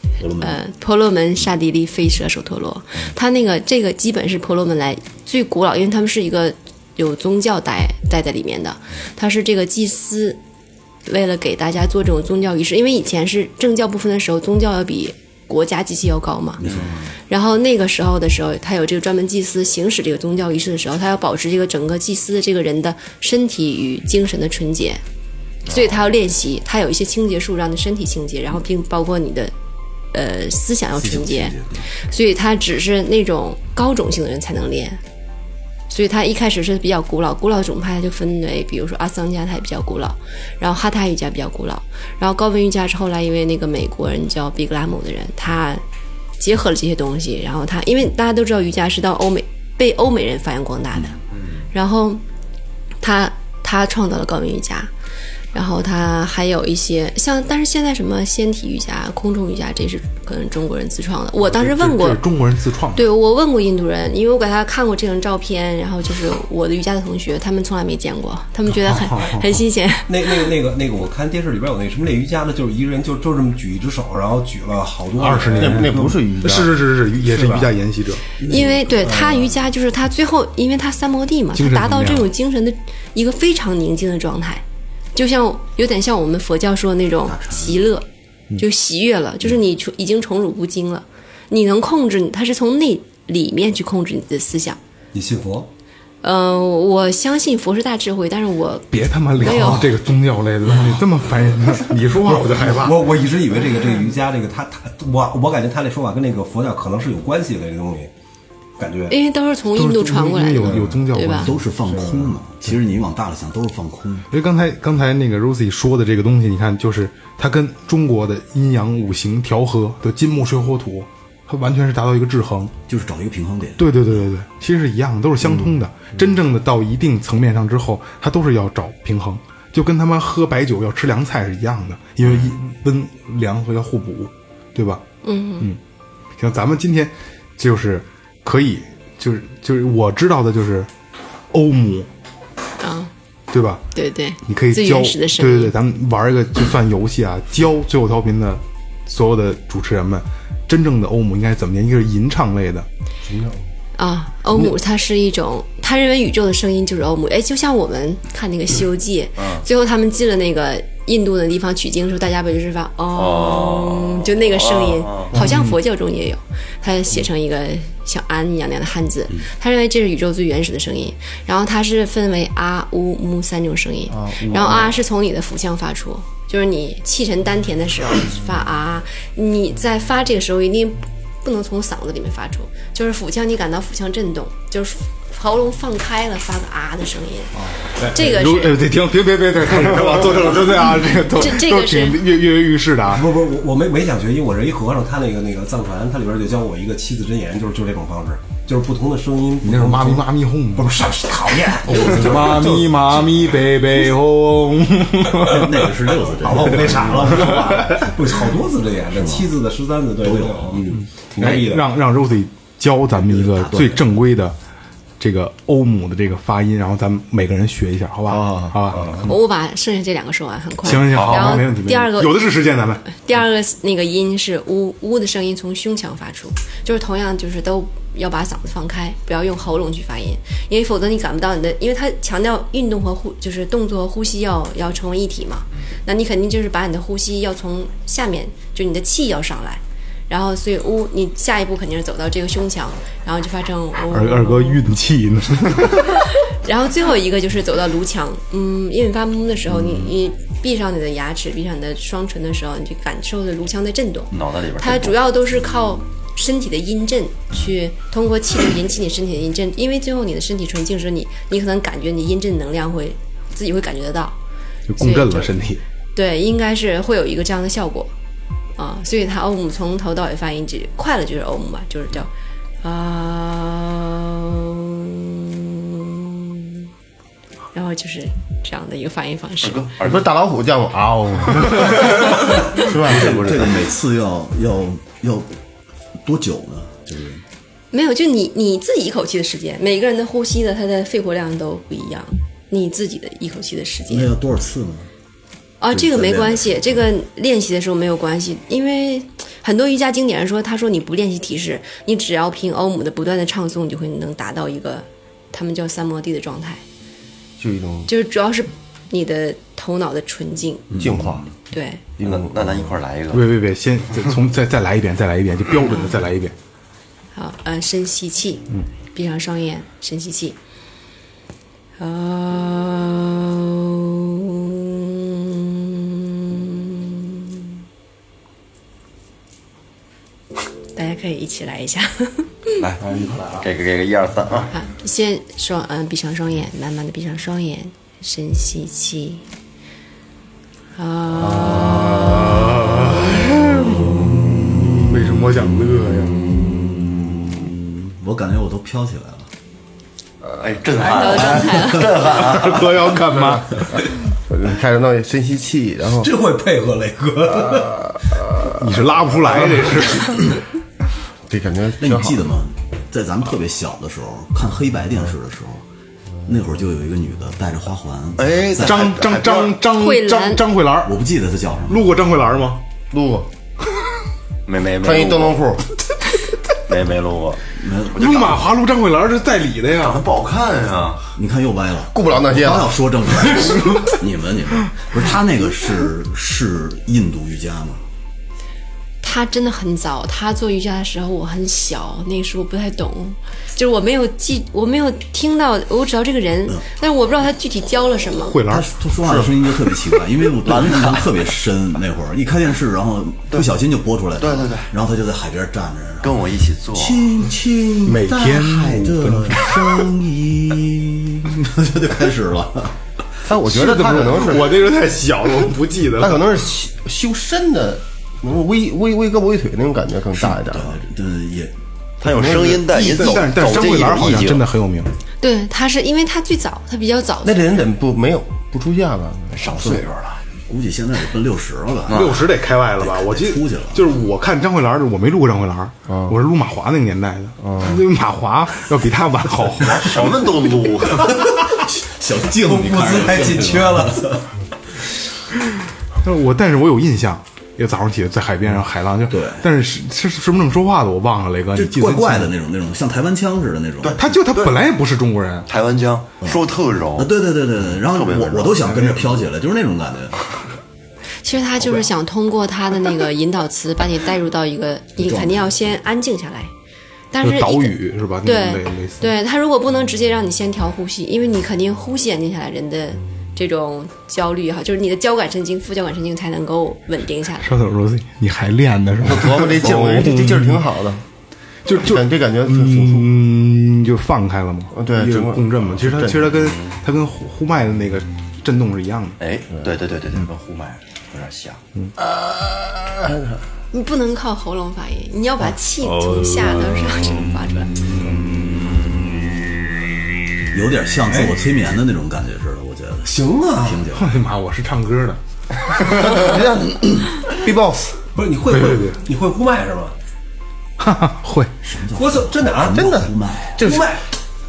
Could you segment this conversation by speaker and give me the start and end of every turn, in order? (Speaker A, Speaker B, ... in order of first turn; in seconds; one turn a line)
Speaker A: 0.2-0.6
Speaker B: 0.4-10.4
Speaker B: 11.1-16.6
Speaker A: 16.6-17.0
Speaker C: 16.6-17.1
Speaker B: 17.3-25.0
Speaker B: 25.7-29.5
Speaker B: 30.1-35.0
Speaker A: 30.9-31.9
Speaker B: 35.9-45.8
Speaker B: 46.4-52.2
Speaker B: 53.0-54.9
Speaker B: 55.5-62.2
Speaker D: 61.4-63.1
Speaker B: 63.0-70.5
Speaker D: 68.8-69.6
Speaker E: 70.1-76.2
Speaker D: 75.2-78.2
Speaker F: 75.6-76.7
Speaker E: 77.2-77.7
Speaker A: 78.4-78.8
Speaker B: 78.5-88.1
Speaker E: 79.0-79.6
Speaker D: 81.5-82.3
Speaker A: 87.2-87.8
Speaker B: 88.6-94.8
Speaker E: 95.1-95.7
Speaker B: 96.2-99.9
Speaker D: 98.9-103.0
Speaker E: 99.4-100.0
Speaker E: 100.7-101.0
Speaker E: 102.1-108.1
Speaker E: 108.8-109.2
Speaker B: 109.1-111.5
Speaker D: 109.7-111.6
Speaker E: 110.6-111.1
Speaker A: 111.4-114.3
Speaker E: 111.7-112.3
Speaker D: 114.3-122.7
Speaker A: 122.9-124.3
Speaker D: 123.8-135.0
Speaker B: 135.2-135.7
Speaker D: 136.4-140.9
Speaker D: 141.5-142.1
Speaker B: 142.8-143.1
Speaker D: 143.5-143.8
Speaker B: 143.9-145.8
Speaker D: 144.4-152.9
Speaker F: 153.3-153.7
Speaker B: 154.0-188.8
Speaker C: 163.1-165.3
Speaker D: 165.4-165.8
Speaker F: 174.1-175.0
Speaker D: 187.7-193.3
Speaker E: 189.8-191.2
Speaker B: 191.3-192.2
Speaker E: 193.1-203.2
Speaker D: 199.6-200.9
Speaker D: 201.9-205.9
Speaker A: 202.1-202.4
Speaker A: 205.4-207.8
Speaker E: 206.3-211.9
Speaker D: 206.6-208.2
Speaker A: 209.1-209.6
Speaker A: 210.2-211.6
Speaker D: 211.0-214.6
Speaker A: 213.1-214.1
Speaker D: 215.2-219.3
Speaker F: 218.3-218.8
Speaker B: 219.3-222.5
Speaker D: 220.8-223.1
Speaker C: 221.0-221.6
Speaker B: 223.1-244.8
Speaker D: 244.1-246.4
Speaker B: 246.2-264.4
Speaker A: 249.8-250.1
Speaker C: 254.3-255.2
Speaker D: 264.9-265.8
Speaker B: 265.0-265.5
Speaker B: 266.1-268.1
Speaker B: 268.8-272.3
Speaker B: 272.8-276.8
Speaker B: 277.7-279.9
Speaker C: 279.6-280.3
Speaker F: 280.0-283.7
Speaker D: 281.7-281.9
Speaker A: 282.9-285.5
Speaker A: 286.2-287.4
Speaker B: 287.9-294.3
Speaker A: 294.1-295.1
Speaker B: 295.8-306.8
Speaker A: 295.9-297.1
Speaker F: 307.6-308.1
Speaker B: 308.1-310.9
Speaker A: 310.9-311.5
Speaker F: 311.0-311.5
Speaker B: 311.7-312.0
Speaker F: 312.2-313.0
Speaker C: 312.2-313.5
Speaker D: 313.3-316.6
Speaker B: 317.4-320.6
Speaker B: 322.0-327.7
Speaker B: 330.9-332.8
Speaker C: 332.8-334.7
Speaker B: 334.7-339.4
Speaker B: 341.0-342.3
Speaker D: 341.8-346.4
Speaker A: 344.5-345.0
Speaker A: 346.6-349.5
Speaker C: 350.6-352.9
Speaker B: 351.1-352.1
Speaker D: 351.8-354.1
Speaker F: 354.5-356.3
Speaker E: 356.1-358.1
Speaker D: 358.8-360.6
Speaker E: 359.5-360.1
Speaker F: 361.5-362.4
Speaker A: 362.0-365.8
Speaker A: 366.5-369.2
Speaker C: 368.4-369.8
Speaker D: 368.8-371.1
Speaker B: 369.9-370.6
Speaker A: 371.0-372.1
Speaker D: 371.9-372.8
Speaker F: 373.1-373.5
Speaker C: 374.7-375.6
Speaker F: 375.0-375.9
Speaker C: 376.9-377.6
Speaker A: 377.8-378.5
Speaker C: 378.2-378.6
Speaker D: 378.2-380.2
Speaker C: 380.0-381.3
Speaker A: 381.4-388.0
Speaker F: 382.1-382.9
Speaker B: 389.2-398.6
Speaker D: 398.3-398.9
Speaker A: 398.7-413.0
Speaker F: 399.2-399.5
Speaker C: 400.6-401.4
Speaker C: 404.4-404.9
Speaker C: 406.2-407.3
Speaker D: 408.1-410.1
Speaker F: 413.4-414.9
Speaker D: 413.7-416.5
Speaker F: 416.2-421.0
Speaker A: 420.3-421.8
Speaker C: 422.2-424.6
Speaker F: 422.2-423.3
Speaker D: 422.9-425.1
Speaker B: 425.4-427.6
Speaker F: 427.4-430.1
Speaker C: 429.5-430.4
Speaker A: 430.7-432.5
Speaker C: 432.1-432.4
Speaker D: 432.1-440.1
Speaker A: 433.0-434.1
Speaker F: 436.1-436.4
Speaker F: 437.6-438.0
Speaker C: 439.8-441.4
Speaker A: 441.2-444.4
Speaker E: 442.6-444.4
Speaker D: 446.2-452.5
Speaker A: 449.3-449.7
Speaker A: 451.7-454.2
Speaker C: 454.0-454.7
Speaker D: 454.1-455.7
Speaker C: 455.7-457.3
Speaker A: 457.2-460.4
Speaker C: 458.0-458.8
Speaker D: 458.9-459.4
Speaker B: 461.4-466.7
Speaker A: 461.8-462.1
Speaker A: 465.2-465.9
Speaker B: 467.3-477.7
Speaker D: 467.4-469.3
Speaker D: 477.6-480.8
Speaker F: 479.2-481.2
Speaker D: 481.9-489.4
Speaker F: 482.0-483.3
Speaker F: 484.9-486.6
Speaker C: 486.7-486.9
Speaker C: 489.4-491.8
Speaker F: 493.1-493.6
Speaker B: 493.9-498.0
Speaker D: 496.0-497.4
Speaker D: 498.1-498.9
Speaker A: 500.7-504.5
Speaker E: 501.3-501.6
Speaker E: 503.2-504.1
Speaker D: 504.1-505.4
Speaker F: 506.0-508.2
Speaker E: 508.4-510.2
Speaker D: 508.7-509.2
Speaker D: 511.0-511.7
Speaker A: 511.8-513.9
Speaker E: 512.1-513.2
Speaker F: 512.9-514.1
Speaker E: 513.8-514.2